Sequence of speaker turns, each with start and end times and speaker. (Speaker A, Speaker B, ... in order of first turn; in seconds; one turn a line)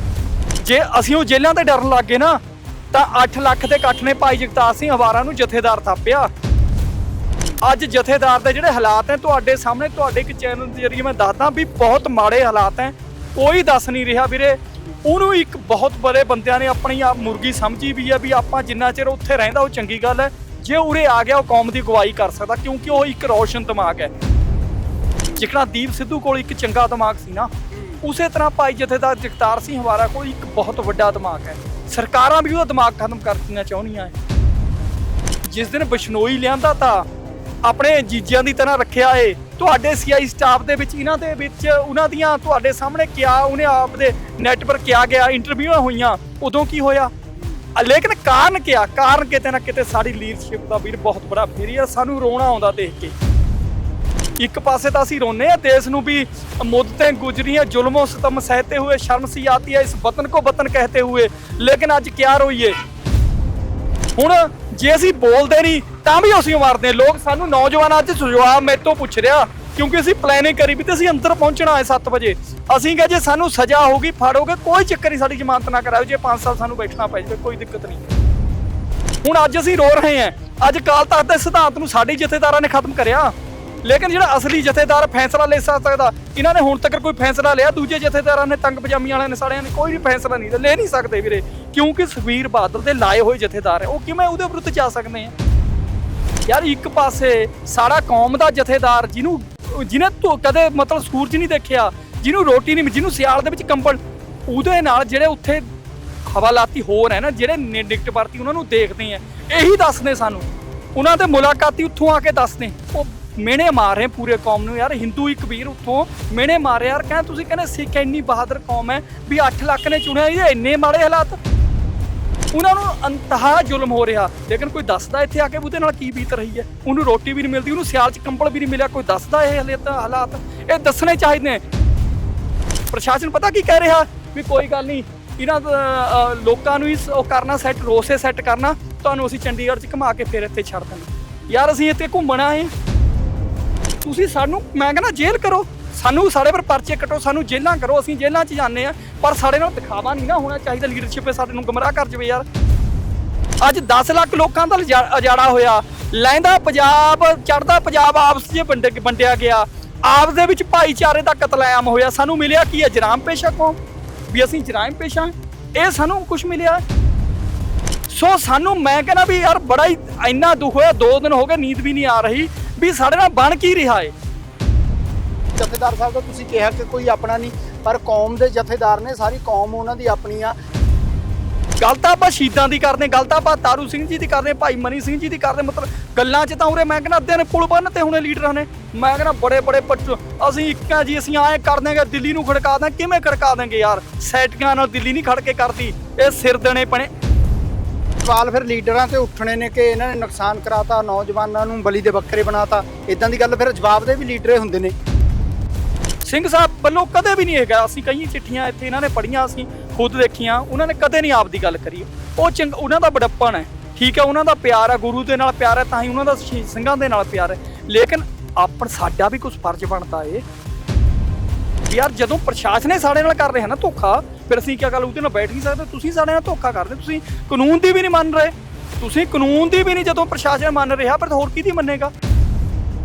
Speaker A: 0.6-2.4
Speaker A: 2.9-6.3
Speaker A: 7.6-24.1
Speaker A: 25.4-27.5
Speaker B: 27.7-28.0
Speaker A: 28.0-34.1
Speaker A: 35.5-37.1
Speaker A: 37.6-47.1
Speaker B: 47.4-47.6
Speaker A: 47.7-53.1
Speaker A: 54.4-62.7
Speaker A: 64.2-78.1
Speaker A: 79.2-95.3
Speaker A: 96.5-105.7
Speaker A: 106.2-121.4
Speaker A: 122.5-131.6
Speaker A: 132.9-142.7
Speaker A: 144.0-152.4
Speaker A: 153.6-163.8
Speaker A: 164.3-166.8
Speaker A: 168.1-174.1
Speaker B: 175.6-180.6
Speaker A: 181.8-197.1
Speaker B: 198.2-204.9
Speaker A: 206.2-220.4
Speaker A: 221.9-232.1